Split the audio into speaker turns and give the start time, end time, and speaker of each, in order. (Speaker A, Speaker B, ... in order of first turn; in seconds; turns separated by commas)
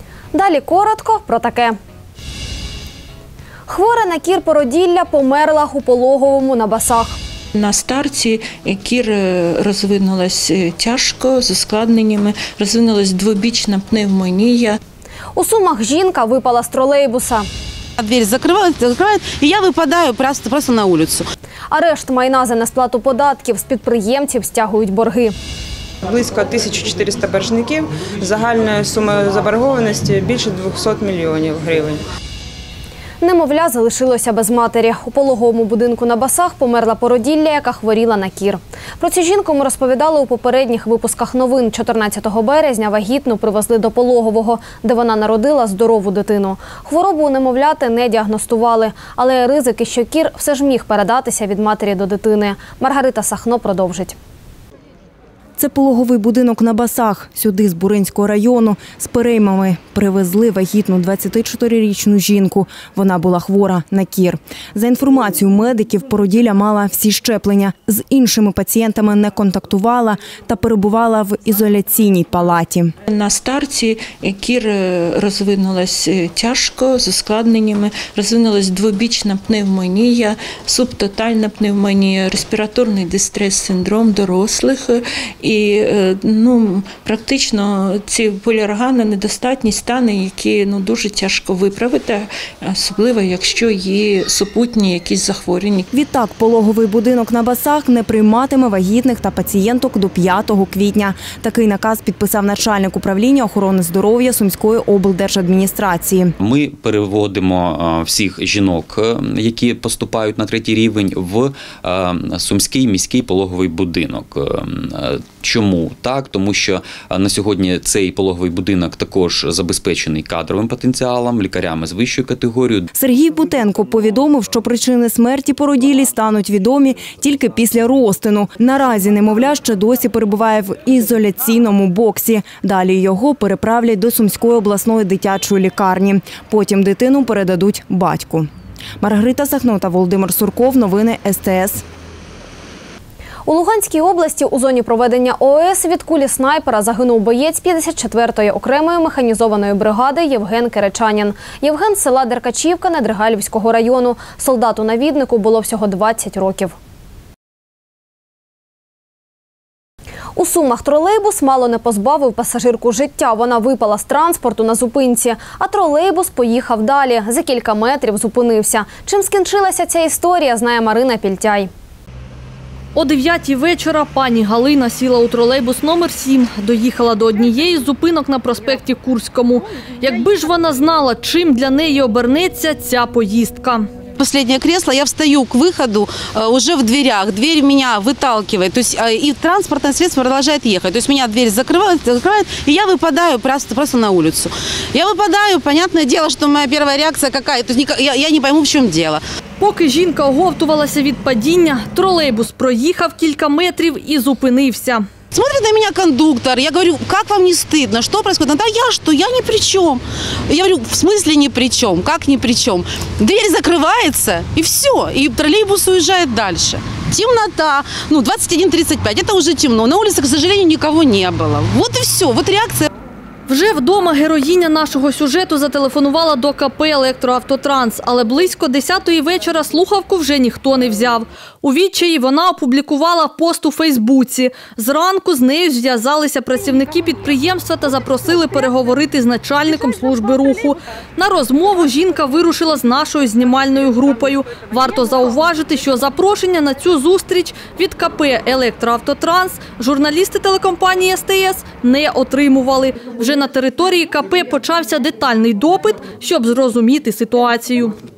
Speaker A: 0.3-1.8, Speaker A: 3.7-7.2, Speaker B: 7.5-14.8, Speaker A: 15.3-17.4, Speaker C: 18.0-21.2, Speaker A: 21.7-25.3, Speaker D: 26.2-31.9, Speaker A: 33.2-54.1, Speaker E: 55.6-72.9, Speaker B: 73.1-95.9, Speaker E: 95.9-106.3, Speaker F: 106.4-122.9, Speaker E: 122.9-138.5, Speaker E: 139.0-141.8, Speaker A: 143.4-156.7, Speaker A: 160.3-171.7, Speaker G: 172.9-183.8, Speaker C: 184.2-199.2, Speaker G: 199.6-205.0, Speaker C: 205.3-222.9, Speaker G: 223.5-257.9